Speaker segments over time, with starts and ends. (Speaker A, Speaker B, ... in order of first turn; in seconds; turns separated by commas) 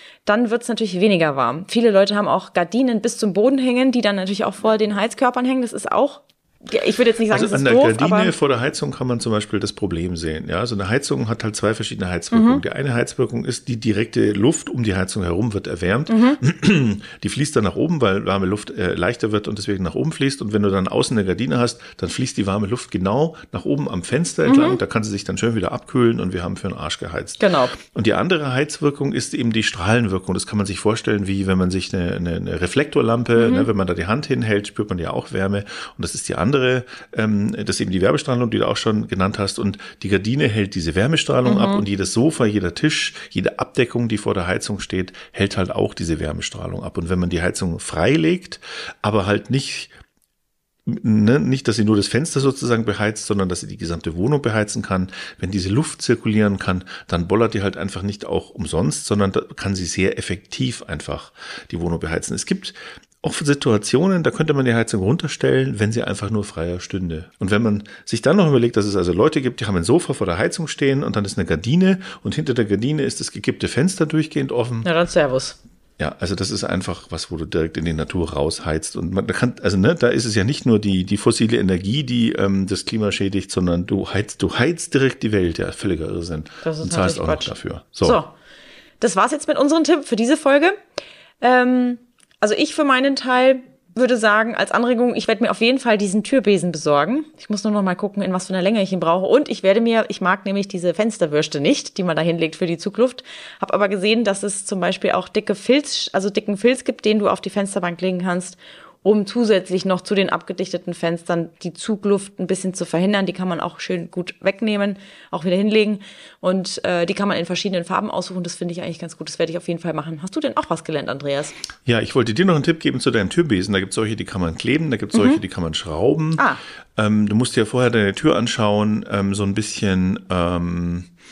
Speaker A: 0.2-8.3, Speaker B: 7.3-49.9, Speaker A: 12.3-12.6, Speaker A: 16.1-16.4, Speaker A: 24.4-24.8, Speaker A: 27.4-27.7, Speaker A: 33.4-33.7, Speaker A: 41.4-41.8, Speaker B: 50.8-74.9, Speaker A: 74.8-75.6, Speaker B: 76.0-88.2, Speaker A: 86.6-87.5, Speaker A: 88.0-88.3, Speaker A: 89.0-90.8, Speaker A: 91.4-121.5, Speaker B: 121.8-131.1, Speaker A: 125.1-125.4